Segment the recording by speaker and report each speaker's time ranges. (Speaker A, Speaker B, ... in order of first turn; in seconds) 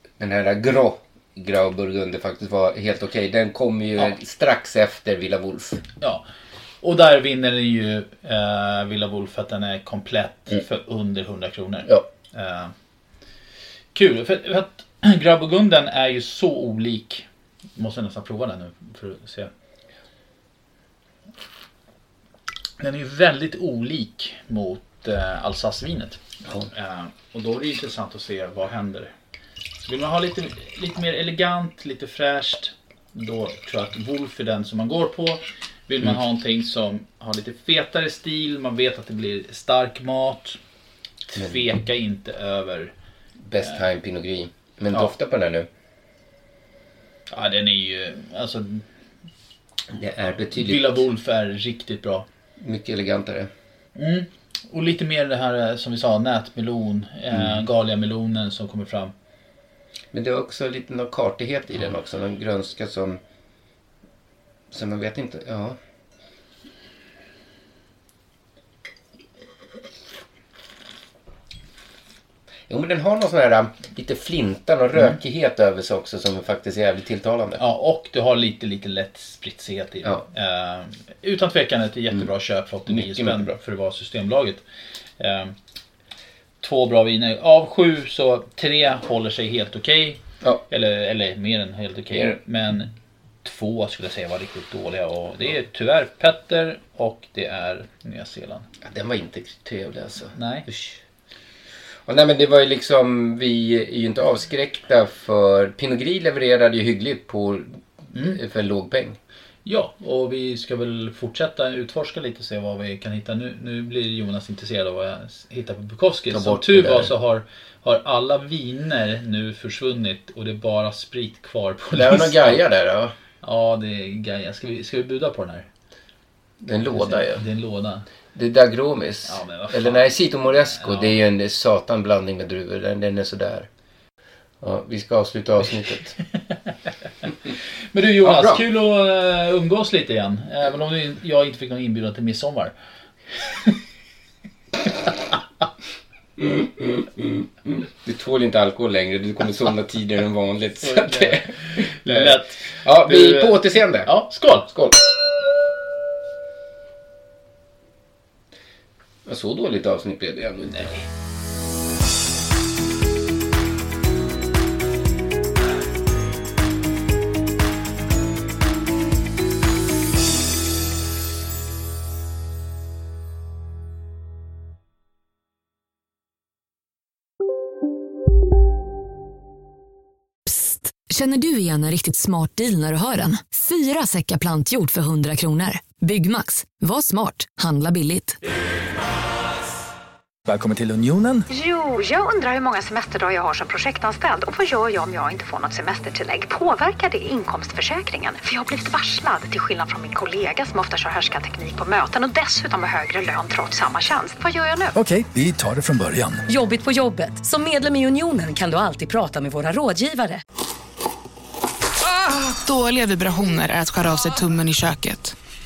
Speaker A: 0.2-5.8, 41.4-41.6, 43.5-45.7, 49.9-51.0, 52.6-53.5, 57.3-57.6, 60.1-63.2, 64.7-65.8, 72.7-77.6, 82.9-83.6, 92.1-92.4, 98.8-101.0, 102.1-109.2, 116.3-117.1, 121.9-123.1, 126.6-127.5, 128.3-133.7, 134.6-136.2, 138.2-138.6, 146.4-155.0, 159.3-160.9
Speaker B: 6.8-12.7, 13.9-19.5, 22.8-29.1, 29.8-40.6, 41.3-42.9, 47.3-48.9, 50.5-52.3, 54.0-59.1, 77.6-84.6, 85.2-85.5, 86.6-92.9, 93.4-98.7, 100.3-100.7, 108.1-108.4, 109.7-122.6, 123.4-125.7, 126.9-128.1, 129.3-130.1, 130.7-131.2, 137.9-142.7, 143.4-143.8, 150.8-154.7, 160.7-161.0
Speaker C: 180.5-188.4
Speaker D: 190.5-191.4, 204.9-206.4
Speaker E: 191.5-204.9
Speaker F: 206.5-210.4
Speaker G: 212.1-215.4